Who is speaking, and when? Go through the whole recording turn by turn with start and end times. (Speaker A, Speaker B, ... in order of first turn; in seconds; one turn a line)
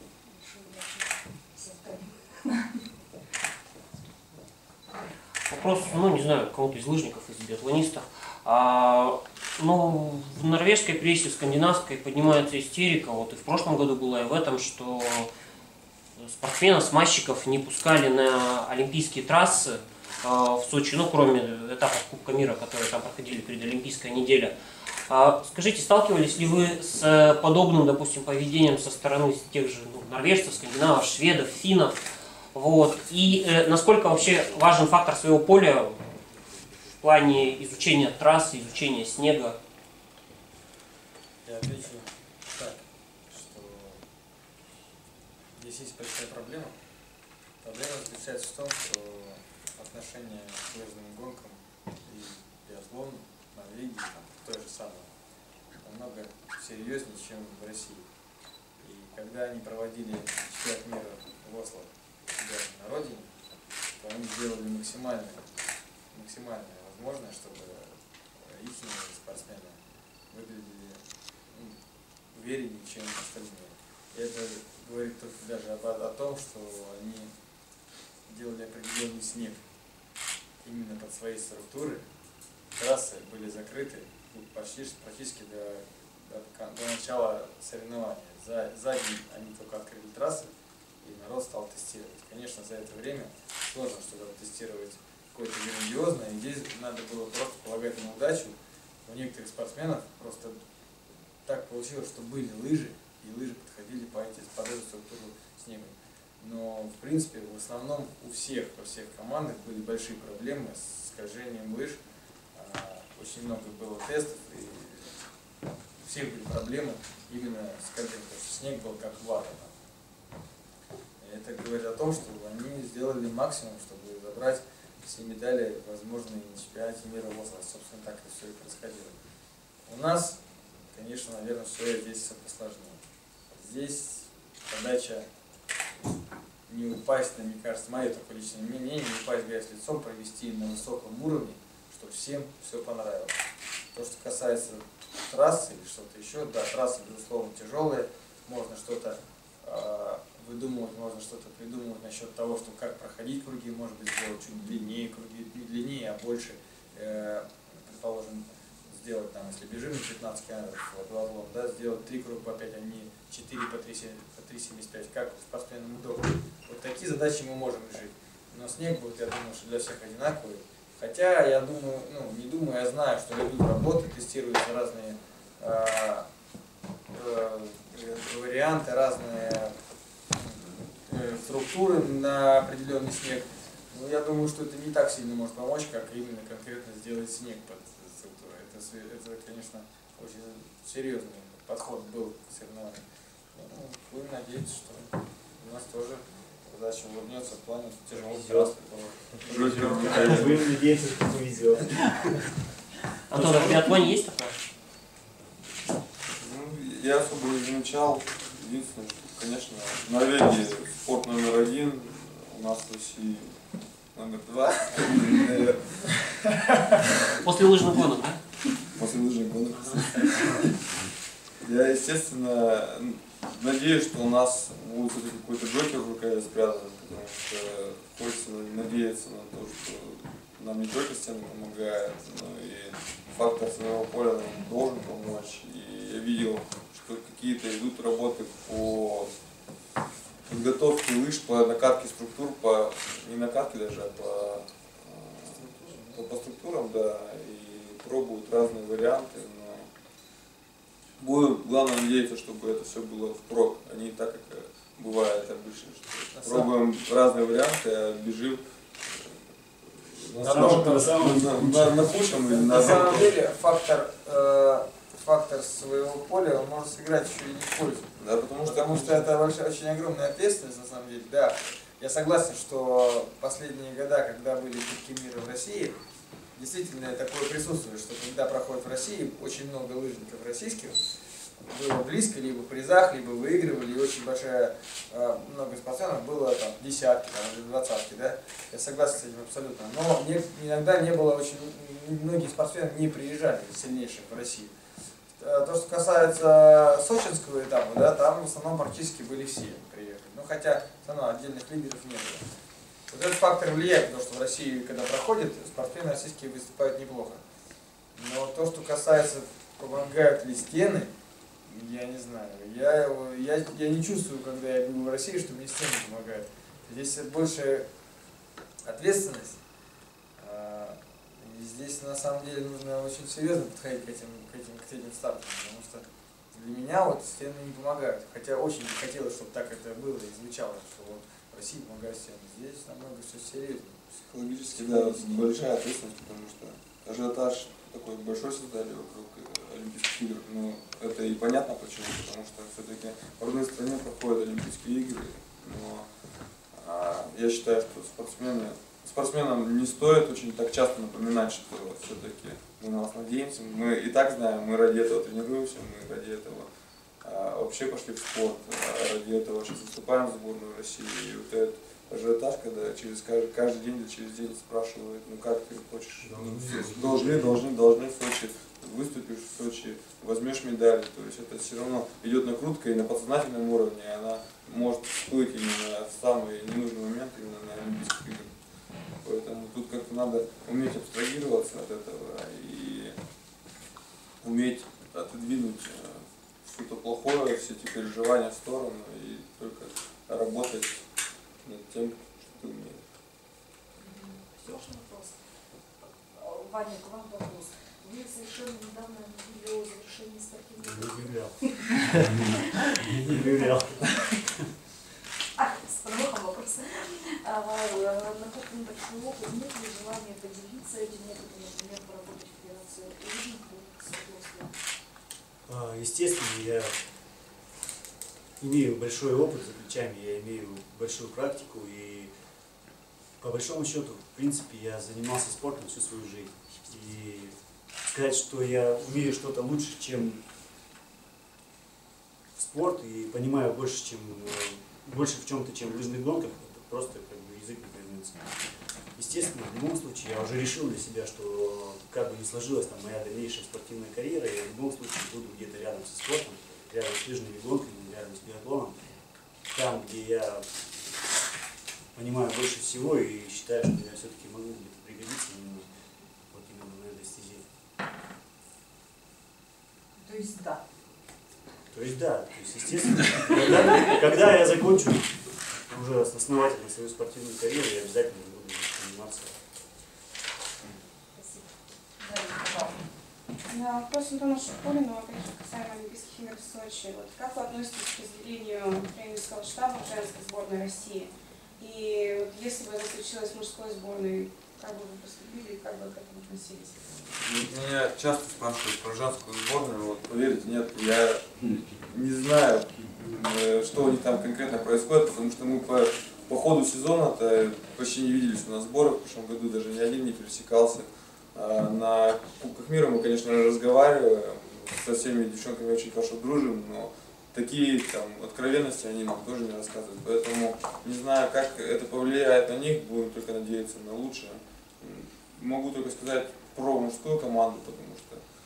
Speaker A: 0.2-2.6
Speaker B: 5.5-15.3
Speaker B: 16.1-36.1
Speaker B: 36.9-39.6
Speaker C: 41.4-44.0
Speaker C: 45.5-46.7
Speaker C: 47.6-55.1
Speaker C: 55.8-58.0
Speaker C: 58.8-63.3
Speaker C: 64.0-65.5
Speaker C: 66.1-69.8
Speaker C: 70.3-71.8
Speaker C: 72.3-77.3
Speaker C: 78.3-79.6
Speaker C: 80.6-82.0
Speaker C: 82.7-90.5
Speaker C: 91.0-100.6
Speaker C: 101.4-112.0
Speaker C: 112.5-115.1
Speaker C: 116.0-119.7
Speaker C: 121.2-129.2
Speaker C: 129.8-130.4
Speaker C: 130.9-135.2
Speaker C: 136.7-143.3
Speaker C: 143.9-176.3
Speaker C: 177.1-179.7
Speaker C: 180.3-193.0
Speaker C: 193.5-200.3
Speaker D: 198.1-198.8
Speaker D: 199.3-202.4
Speaker E: 199.4-200.6
Speaker B: 203.3-204.6
Speaker D: 203.3-203.9
Speaker E: 206.3-213.6
Speaker E: 214.1-216.2
Speaker B: 217.4-218.4
Speaker E: 218.9-220.6
Speaker E: 221.6-239.3
Speaker E: 240.5-249.9
Speaker C: 245.5-246.2
Speaker E: 251.2-263.4
Speaker C: 256.3-256.7
Speaker D: 260.4-262.1
Speaker C: 260.4-261.1
Speaker C: 262.1-276.0
Speaker E: 268.2-269.3
Speaker C: 276.5-281.0
Speaker C: 281.6-294.7
Speaker C: 295.4-302.4
Speaker C: 303.1-307.4
Speaker C: 308.1-311.1
Speaker C: 311.6-317.9
Speaker C: 318.8-319.6
Speaker C: 320.4-334.0
Speaker E: 334.1-346.1
Speaker C: 334.9-335.4
Speaker E: 346.7-356.7
Speaker E: 357.2-378.5
Speaker D: 366.2-367.5
Speaker E: 379.2-383.1
Speaker E: 384.4-391.1
Speaker E: 391.6-393.0
Speaker A: 394.0-395.4
Speaker A: 396.3-402.0
Speaker D: 400.8-402.3
Speaker D: 403.0-404.2
Speaker A: 403.4-403.7
Speaker A: 405.6-414.7
Speaker D: 415.7-417.0
Speaker D: 418.6-422.3
Speaker D: 423.4-430.4
Speaker D: 432.5-449.0
Speaker D: 449.7-450.6
Speaker D: 452.1-455.9
Speaker D: 456.5-457.6
Speaker A: 460.2-460.8
Speaker D: 461.9-469.6
Speaker A: 471.3-471.7
Speaker A: 472.2-472.9
Speaker F: 473.7-487.0
Speaker E: 487.2-518.4